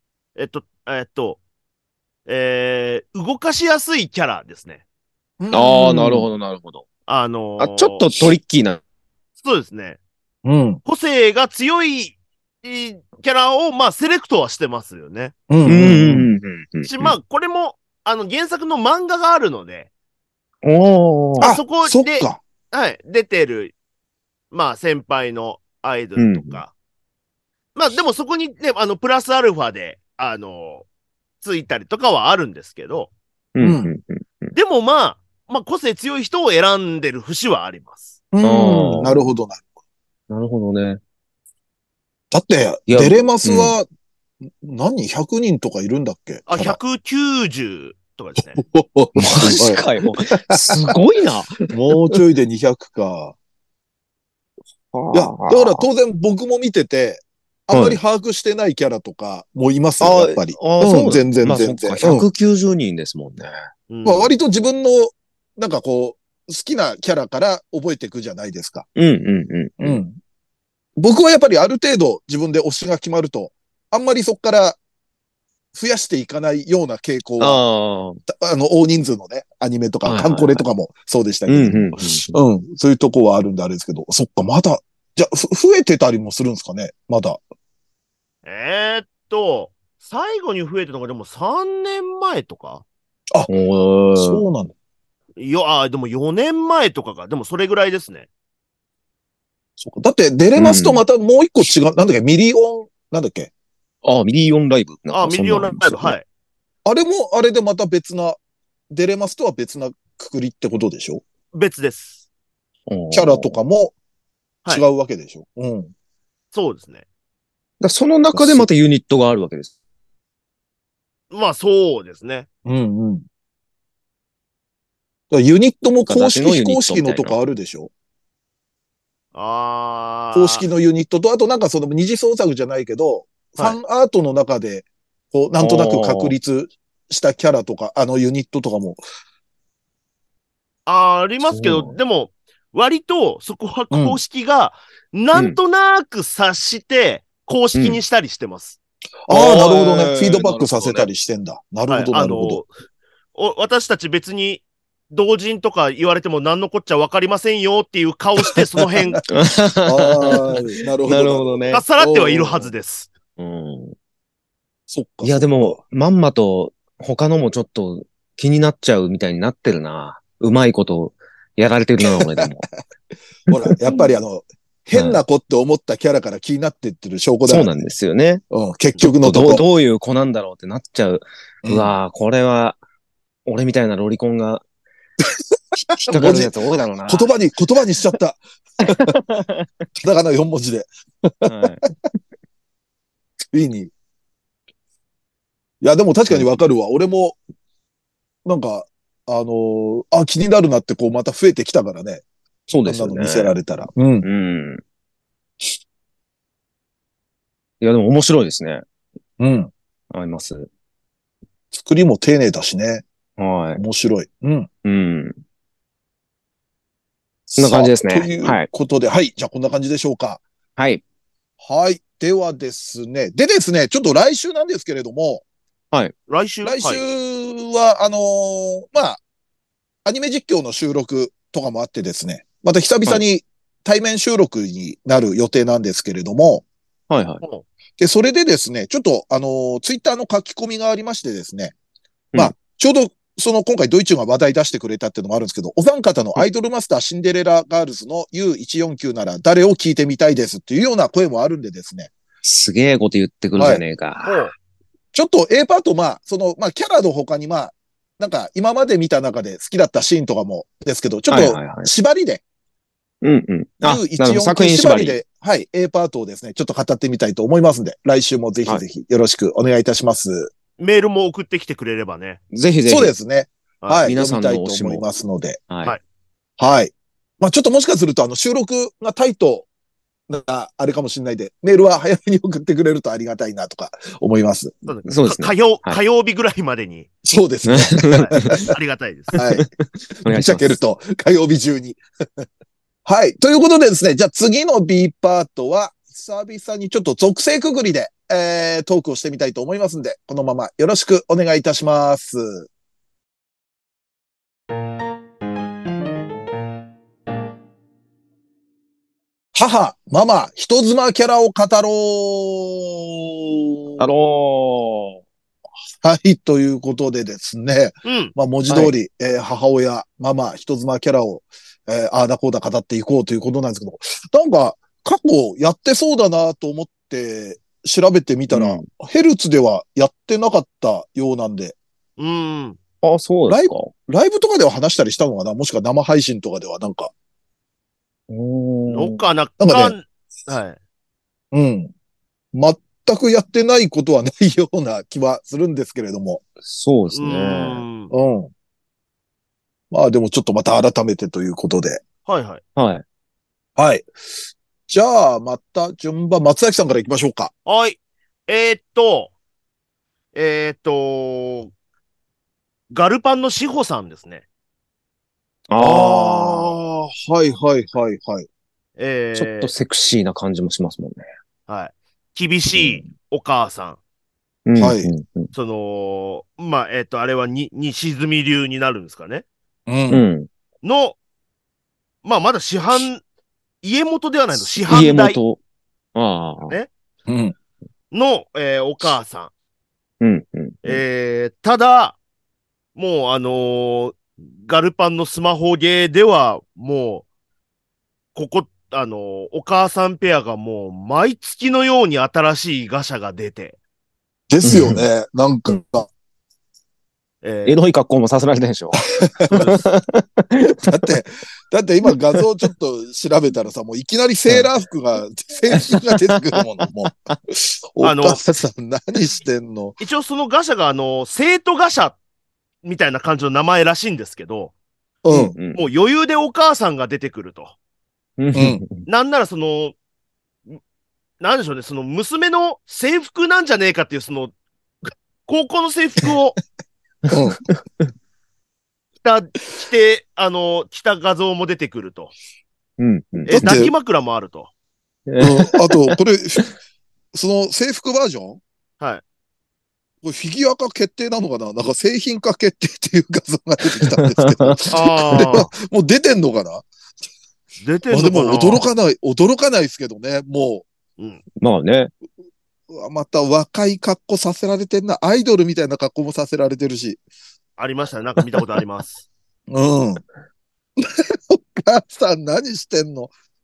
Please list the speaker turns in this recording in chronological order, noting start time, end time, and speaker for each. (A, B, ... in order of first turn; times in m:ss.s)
0:00.4-0:01.4 A
0:02.2-0:04.8 A
0:05.4-0:06.3 B
0:05.5-0:06.8 C
0:07.1-0:08.0 A
0:07.6-0:08.8 C
0:09.4-0:10.0 A
0:10.4-0:10.8 B
0:10.8-0:15.3 A
0:15.5-0:16.3 B
0:15.6-0:17.2 C
0:16.8-0:19.9 A
0:20.6-0:21.5 C
0:21.4-0:22.4 B
0:21.4-0:23.7 A
0:24.5-0:26.7 A
0:26.2-0:26.6 C
0:27.7-0:30.8 A
0:31.4-0:33.1 A
0:33.5-0:34.5 C
0:33.6-0:33.9 B
0:34.5-0:38.2 A
0:38.3-0:39.6 B
0:38.4-0:39.3 C
0:40.3-0:41.0 C
0:42.3-0:43.8 B
0:42.9-0:43.7 C
0:44.4-0:46.8 B
0:46.5-0:48.6 A
0:48.5-0:49.8 B
0:49.2-0:52.2 C
0:50.5-0:50.9 B
0:51.7-0:53.3 B
0:54.9-0:55.8 C
0:55.1-1:02.3 B
0:57.7-0:58.0 C
1:00.0-1:03.5 C
1:03.9-1:04.3 A
1:04.0-1:08.8 B
1:09.0-1:10.0 C
1:09.8-1:10.2 B
1:11.0-1:14.8 B
1:15.7-1:17.6 B
1:17.4-1:18.2 C
1:18.3-1:27.4 B
1:20.0-1:20.6 C
1:21.5-1:22.3 C
1:28.4-1:32.8 A
1:33.5-1:34.4 C
1:34.1-1:34.7 B
1:35.4-1:38.3 A
1:39.8-1:43.5 B
1:40.6-1:41.0 C
1:44.0-1:46.2 C
1:45.1-1:46.2 A
1:46.8-1:48.4 B
1:48.9-1:51.2 B
1:51.5-1:52.2 A
1:52.9-1:53.5 C
1:53.1-1:53.9 B
1:54.7-1:55.9 B
1:56.5-1:57.0 A
1:57.8-1:59.7 C
1:58.3-1:58.7 B
2:01.3-2:02.5 A
2:02.6-2:03.2 B
2:05.3-2:07.9 B
2:06.1-2:07.4 C
2:09.3-2:10.6 A
2:10.3-2:19.0 B
2:15.6-2:16.3 C
2:20.8-2:28.8 A
2:21.4-2:21.9 C
2:23.9-2:24.2 B
2:25.3-2:25.6 C
2:27.7-2:28.0 C
2:29.3-2:32.6 B
2:29.3-2:31.1 C
2:31.9-2:32.7 A
2:33.3-2:39.2 A
2:39.3-2:41.8 C
2:39.8-2:42.7 B
2:41.7-2:43.1 A
2:43.4-2:43.9 C
2:44.9-2:45.8 B
2:45.2-2:52.7 C
2:52.0-2:52.5 B
2:53.5-2:57.7 B
2:53.6-2:54.0 C
2:54.9-2:55.2 C
2:57.5-2:58.4 C
2:58.5-2:59.6 B
2:59.2-3:02.8 C
3:01.6-3:01.9 B
3:03.4-3:04.6 C
3:05.9-3:06.5 B
3:06.0-3:07.3 C
3:07.0-3:09.2 B
3:08.8-3:09.6 C
3:10.0-3:11.7 B
3:11.4-3:11.8 C
3:13.5-3:13.9 B
3:15.8-3:17.4 B
3:18.4-3:22.2 B
3:22.7-3:23.5 C
3:22.8-3:24.3 B
3:24.2-3:24.8 C
3:27.8-3:28.8 C
3:29.4-3:29.7 B
3:30.1-3:30.7 C
3:31.7-3:33.0 B
3:33.4-3:33.8 C
3:33.8-3:34.7 B
3:34.8-3:35.4 C
3:37.5-3:40.4 B
3:37.6-3:38.7 C
3:40.8-3:41.0 C
3:41.6-3:45.4 B
3:46.3-3:47.0 A
3:46.6-3:49.2 B
3:50.0-3:56.6 B
3:57.1-3:57.4 C
3:58.0-4:01.7 B
4:02.3-4:12.1 B
4:12.4-4:14.5 C
4:13.6-4:13.8 B
4:14.2-4:14.5 A
4:15.1-4:22.4 B
4:21.3-4:21.9 C
4:23.2-4:25.2 C
4:23.8-4:30.5 B
4:30.8-4:32.4 A
4:32.5-4:33.1 C
4:32.8-4:35.6 B
4:33.8-4:34.1 A
4:34.0-4:35.0 C
4:35.7-4:36.0 C
4:36.6-4:39.7 B
4:40.3-4:44.7 B
4:44.8-4:47.1 A
4:45.0-4:46.0 C
4:47.2-4:48.6 B
4:47.7-4:48.7 C
4:48.1-4:49.3 A
4:49.3-4:49.6 C
4:49.3-4:49.7 B
4:50.2-4:50.8 C
4:50.2-4:52.4 B
4:53.0-5:02.7 B
5:09.5-5:14.0 B
5:14.0-5:15.2 C
5:16.0-5:31.8 B
5:18.0-5:18.3 A
5:18.7-5:18.9 C
5:28.5-5:28.8 C
5:32.2-5:32.8 A
5:33.0-5:33.9 C
5:33.5-5:37.1 B
5:38.3-5:39.2 C
5:38.9-5:40.8 A
5:39.6-5:39.9 B
5:41.5-5:41.9 B
5:42.5-5:46.4 B
5:46.6-5:47.8 C
5:47.1-5:48.1 A
5:48.1-5:48.5 B
5:49.9-5:52.0 B
5:52.2-5:52.6 A
5:52.8-5:53.0 C
5:53.8-5:54.1 B
5:54.9-5:57.5 B
5:57.6-5:59.3 A
6:00.3-6:01.7 A
6:02.9-6:04.4 A
6:05.7-6:06.7 C
6:05.8-6:08.4 B
6:09.0-6:09.7 A
6:09.3-6:11.2 C
6:11.7-6:14.0 A
6:12.7-6:13.0 C
6:14.6-6:15.5 C
6:14.8-6:15.1 B
6:15.5-6:19.4 A
6:19.9-6:20.2 B
6:20.1-6:20.5 C
6:20.8-6:21.2 A
6:22.2-6:23.2 A
6:23.8-6:25.4 A
6:24.8-6:25.6 C
6:26.1-6:26.8 C
6:27.3-6:27.5 B
6:28.1-6:29.5 A
6:30.2-6:31.0 C
6:30.8-6:32.2 A
6:33.0-6:37.2 A
6:38.3-6:43.8 A
6:44.5-6:46.1 B
6:44.6-6:45.0 C
6:47.4-6:47.8 A
6:47.6-6:50.8 C
6:49.2-6:49.8 B
6:50.8-7:00.0 B
6:52.1-6:52.4 C
6:55.7-6:56.6 C
6:58.0-6:58.4 A
7:00.0-7:02.2 A
7:02.8-7:04.7 A
7:05.2-7:05.5 B
7:05.3-7:05.8 C
7:05.7-7:07.7 A
7:08.4-7:09.1 C
7:08.5-7:08.8 B
7:09.1-7:09.9 A
7:11.4-7:14.5 A
7:15.5-7:16.6 A
7:17.3-7:17.6 B
7:17.3-7:17.7 C
7:19.2-7:22.3 A
7:23.0-7:23.8 C
7:23.4-7:24.7 A
7:23.5-7:23.9 B
7:25.3-7:26.7 C
7:25.4-7:26.7 B
7:27.3-7:28.6 B
7:30.2-7:36.8 B
7:34.0-7:34.9 C
7:34.9-7:35.7 A
7:37.8-7:38.8 A
7:38.1-7:40.8 B
7:41.6-7:42.1 C
7:42.9-7:47.2 B
7:47.8-7:49.2 A
7:49.7-7:50.2 B
7:51.0-7:53.3 B